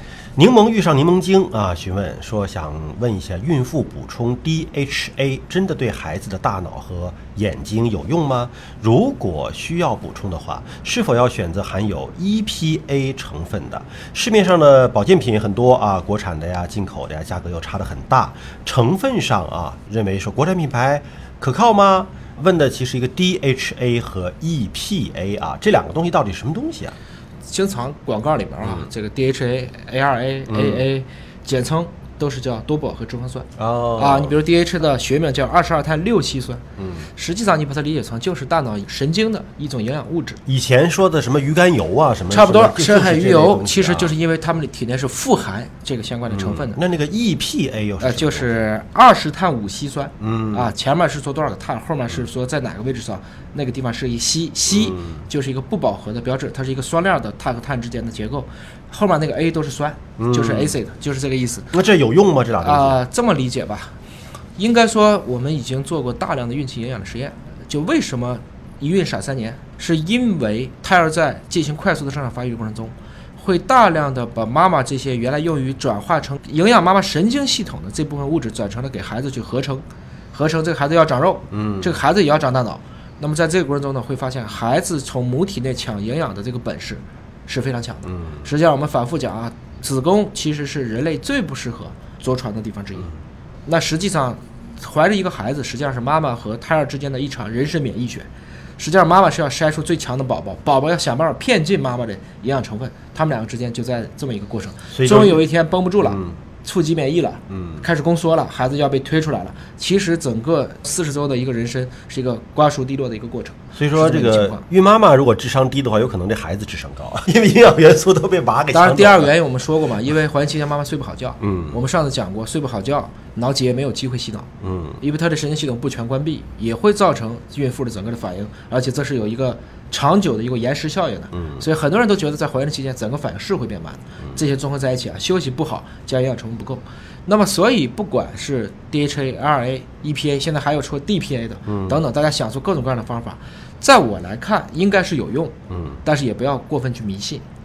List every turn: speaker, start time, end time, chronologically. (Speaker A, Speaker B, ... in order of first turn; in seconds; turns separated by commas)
Speaker A: 0.3-26.9, Speaker B: 27.4-36.6, Speaker A: 28.6-28.9, Speaker A: 30.5-30.8, Speaker A: 33.6-34.4, Speaker A: 36.8-37.1, Speaker B: 37.1-40.4, Speaker A: 40.5-44.1, Speaker B: 42.3-46.8, Speaker A: 46.3-48.5, Speaker B: 48.0-61.7, Speaker A: 50.2-50.7, Speaker A: 54.7-55.2, Speaker A: 60.2-60.8, Speaker A: 61.7-63.0, Speaker B: 62.6-63.9, Speaker B: 64.6-93.1, Speaker A: 81.5-82.0, Speaker B: 93.7-114.7, Speaker A: 104.9-105.4, Speaker A: 106.1-106.3, Speaker A: 107.5-107.8, Speaker A: 113.8-119.3, Speaker B: 118.7-124.5, Speaker A: 121.4-121.8, Speaker A: 124.6-125.0, Speaker B: 125.0-147.4, Speaker A: 131.3-131.6, Speaker A: 141.7-142.0, Speaker A: 145.7-146.0